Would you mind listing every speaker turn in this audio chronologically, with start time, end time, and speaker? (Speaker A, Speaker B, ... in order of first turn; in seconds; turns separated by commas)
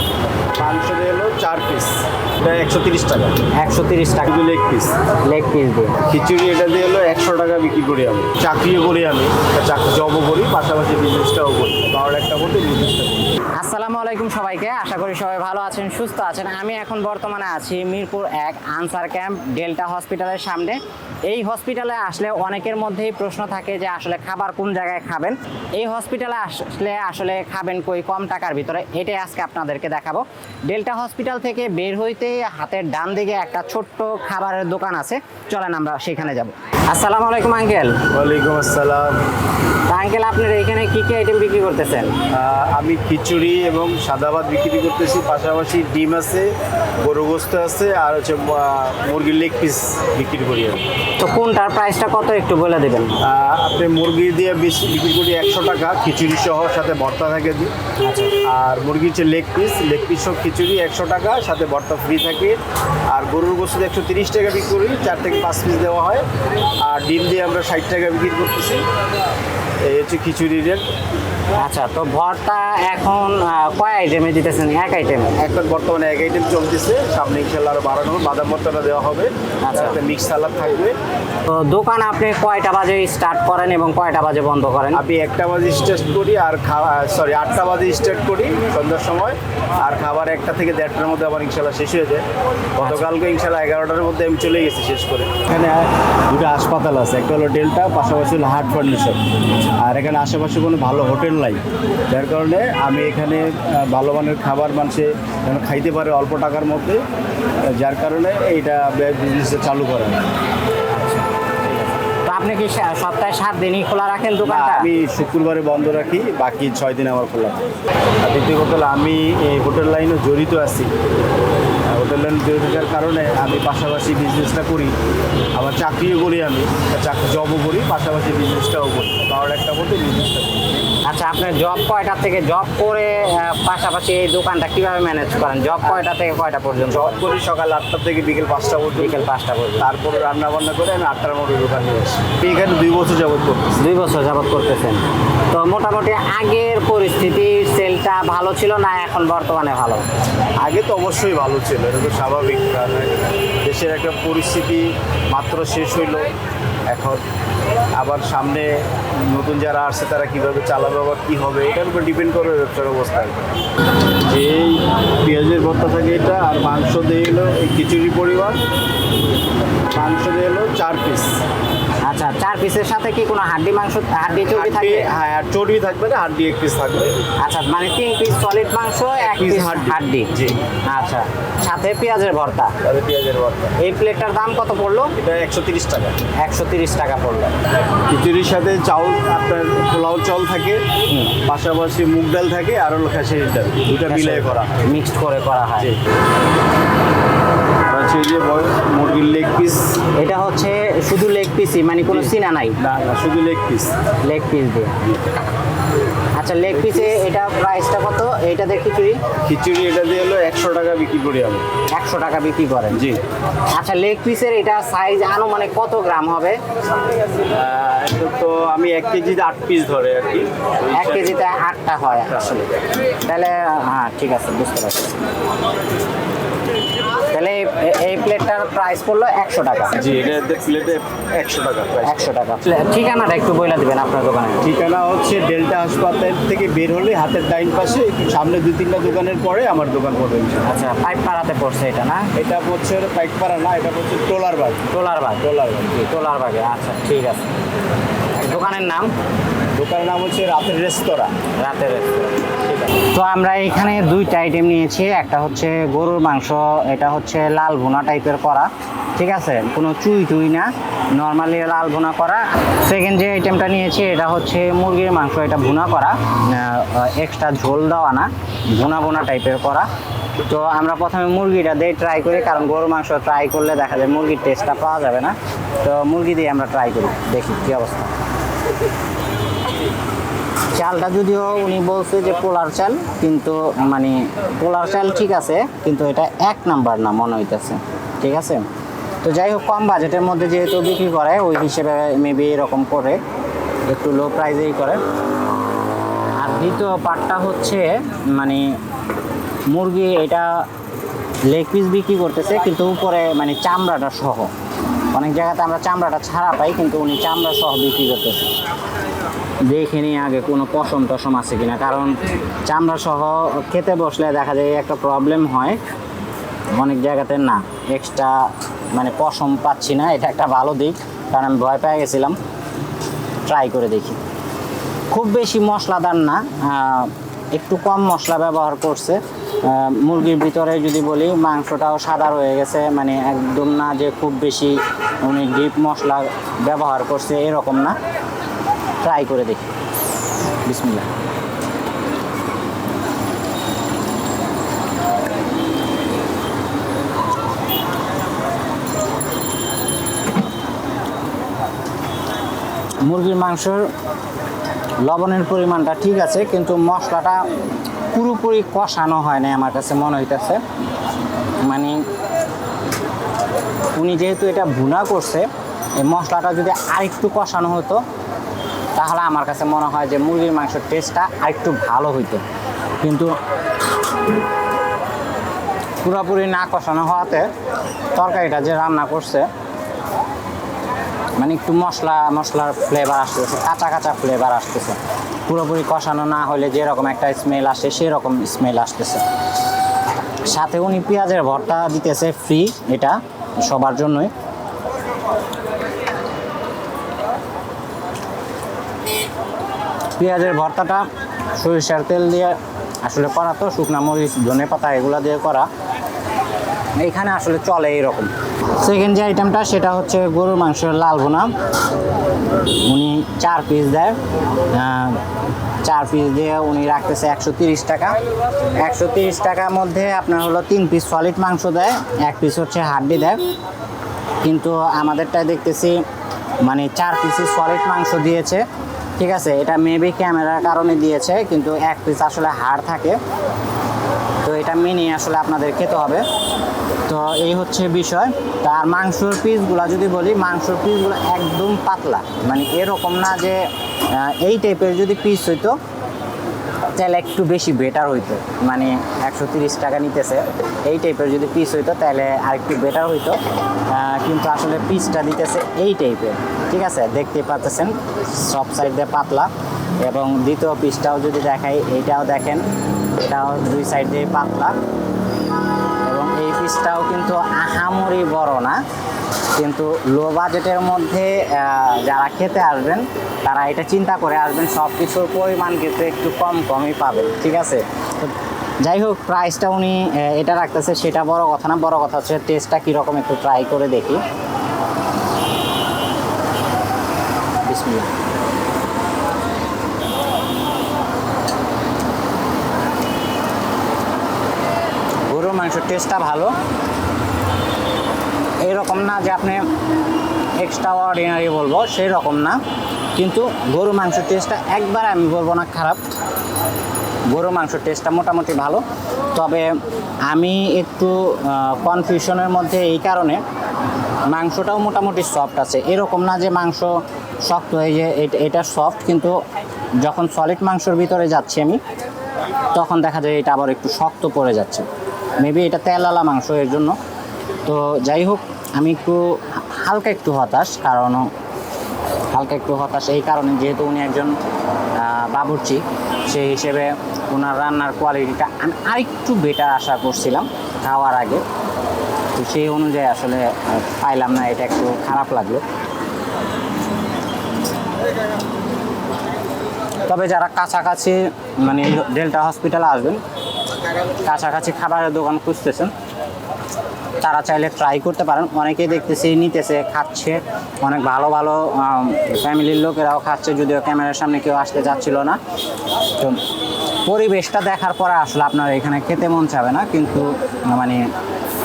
Speaker A: 0.5-3.4, Speaker B: 3.5-4.3, Speaker A: 4.2-5.0, Speaker B: 5.2-6.0, Speaker A: 6.0-13.4, Speaker B: 13.5-38.0, Speaker A: 38.1-39.2, Speaker B: 39.9-42.1, Speaker A: 42.3-50.8, Speaker B: 51.2-53.2, Speaker A: 53.2-57.7, Speaker B: 58.0-58.3, Speaker A: 58.4-62.6, Speaker A: 63.1-66.2, Speaker A: 66.8-68.8, Speaker A: 69.8-70.8, Speaker B: 71.6-75.4, Speaker A: 75.3-80.9, Speaker B: 79.6-80.0, Speaker B: 81.5-85.0, Speaker A: 84.9-92.2, Speaker B: 92.8-93.0, Speaker A: 92.8-99.2, Speaker A: 99.8-107.0, Speaker A: 107.7-110.2, Speaker B: 110.9-114.9, Speaker A: 114.4-117.7, Speaker A: 118.2-120.9, Speaker A: 121.8-124.9, Speaker A: 125.5-130.7, Speaker B: 131.0-137.2, Speaker A: 136.8-139.3, Speaker B: 138.9-139.9, Speaker A: 139.8-143.8, Speaker B: 143.8-150.0, Speaker A: 150.6-156.3, Speaker A: 156.9-157.2, Speaker A: 157.9-163.4, Speaker A: 164.2-168.6, Speaker A: 169.9-171.4, Speaker B: 172.0-175.1, Speaker A: 174.5-177.1, Speaker B: 177.4-180.3, Speaker A: 179.2-180.6, Speaker B: 180.8-182.7, Speaker A: 182.8-183.8, Speaker B: 183.8-185.1, Speaker A: 185.2-186.2, Speaker B: 186.4-187.6, Speaker A: 188.1-190.8, Speaker A: 191.4-194.8, Speaker B: 194.1-195.9, Speaker A: 197.8-200.0, Speaker B: 200.2-202.8, Speaker A: 202.1-203.9, Speaker B: 204.2-204.9, Speaker B: 206.3-209.2, Speaker A: 209.4-211.7, Speaker B: 211.9-213.0, Speaker A: 212.9-213.2, Speaker B: 213.7-216.6, Speaker A: 217.5-221.3, Speaker B: 220.9-222.6, Speaker A: 222.3-222.6, Speaker B: 223.2-225.2, Speaker B: 227.3-230.0, Speaker A: 229.9-232.2, Speaker B: 232.0-234.6, Speaker A: 234.6-240.8, Speaker B: 240.6-242.3, Speaker A: 242.3-244.9, Speaker B: 244.9-247.5, Speaker A: 245.4-245.9, Speaker B: 248.3-249.1, Speaker A: 249.7-251.3, Speaker B: 251.6-269.9, Speaker B: 270.4-278.1, Speaker B: 280.7-288.6, Speaker B: 289.2-293.2, Speaker B: 293.9-295.0, Speaker B: 296.4-298.7, Speaker B: 299.7-300.6, Speaker B: 301.5-304.5, Speaker B: 305.1-308.5, Speaker B: 309.6-315.8, Speaker B: 316.7-322.4, Speaker B: 323.5-324.2, Speaker B: 325.1-337.9, Speaker B: 339.0-339.7, Speaker B: 340.6-341.1, Speaker B: 353.0-353.9, Speaker B: 355.0-357.4, Speaker B: 358.1-360.6, Speaker B: 361.6-362.0, Speaker B: 363.9-365.4, Speaker B: 366.0-368.0, Speaker B: 368.9-372.4, Speaker B: 373.0-373.3, Speaker B: 376.0-377.5, Speaker B: 378.1-379.5, Speaker B: 381.4-389.2, Speaker B: 390.4-394.3, Speaker B: 400.2-401.0, Speaker B: 401.6-405.7, Speaker B: 407.0-411.5, Speaker B: 412.8-414.1, Speaker B: 414.7-415.2, Speaker B: 415.8-418.2, Speaker B: 418.8-423.4, Speaker B: 424.4-426.0, Speaker B: 426.6-428.6, Speaker B: 429.2-433.2, Speaker B: 434.4-436.2, Speaker B: 437.1-445.8, Speaker B: 446.9-453.4, Speaker B: 453.9-459.5, Speaker B: 460.0-462.6, Speaker B: 463.2-464.8, Speaker B: 466.0-468.8, Speaker B: 469.6-484.2, Speaker B: 487.6-488.1, Speaker B: 495.3-496.6, Speaker B: 498.6-499.6, Speaker B: 500.6-502.6, Speaker B: 503.1-506.0, Speaker B: 507.3-508.8, Speaker B: 509.3-509.7, Speaker B: 510.3-513.4, Speaker B: 514.3-519.4, Speaker B: 520.0-521.8, Speaker B: 522.7-524.9, Speaker B: 525.4-527.0, Speaker B: 527.6-531.3, Speaker B: 532.3-534.4, Speaker B: 535.0-541.4, Speaker B: 542.4-545.6, Speaker B: 550.1-553.2, Speaker B: 554.2-555.9, Speaker B: 557.2-565.4, Speaker B: 567.0-571.1